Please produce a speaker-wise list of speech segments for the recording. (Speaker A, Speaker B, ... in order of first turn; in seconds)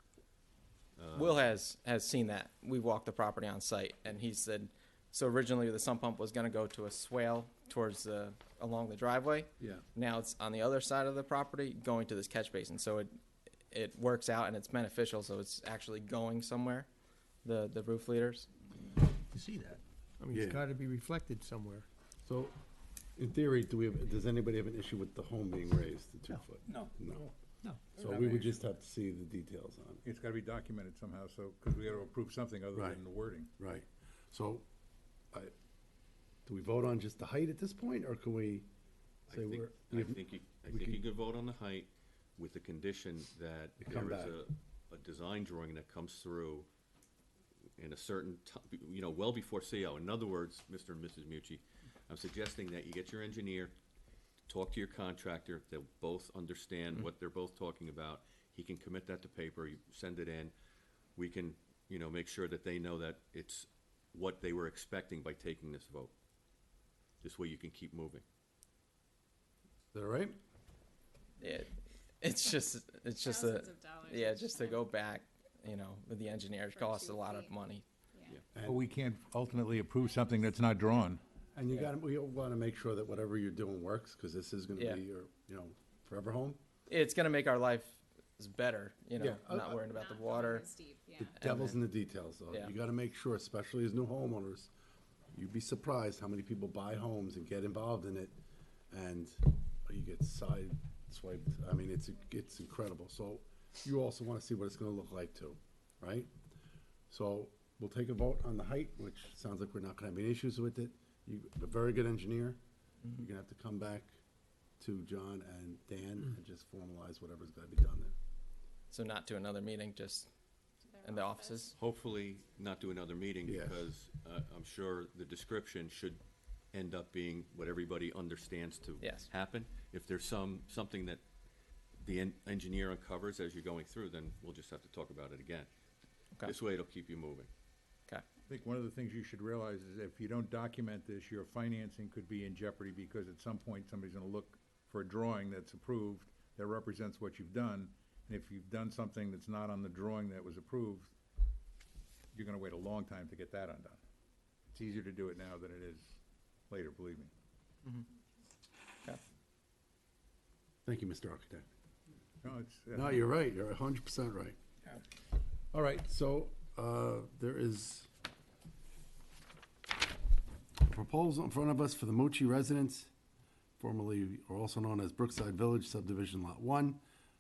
Speaker A: 1.0-1.4, 39.3-46.7, 47.8-53.7, 54.5-60.5, 61.2-66.1, 67.2-68.2, 121.8-126.2, 126.7-131.2, 132.0-135.7, 136.4-137.5
Speaker B: 1.1-13.1, 13.7-16.9, 17.4-18.5, 71.4-71.7, 72.2-77.8, 84.8-85.0, 86.9-90.7, 91.4-91.8, 118.9-120.3, 121.0-121.7, 129.0-129.3
Speaker C: 19.3-21.9, 27.6-28.6
Speaker D: 20.3-20.7, 22.2-22.6, 23.2-27.3, 28.0-30.0, 32.7-33.0, 33.6-34.7, 36.5-38.7, 39.3-41.0, 43.8-44.4, 69.9-70.4, 81.5-86.6, 89.2-89.8, 91.2-94.7, 95.3-98.3, 98.9-106.3, 107.1-112.6, 113.2-114.2, 114.8-118.1, 123.5-123.9, 160.9-161.7, 162.9-164.6, 165.7-168.1, 170.8-173.1, 173.8-177.0
Speaker E: 30.1-33.5, 78.6-81.2, 138.5-151.1, 152.3-154.0, 154.7-156.2, 156.7-157.3, 162.4-163.3
Speaker F: 73.2-74.9, 76.7-77.6, 78.1-78.4, 89.9-91.4, 120.9-121.8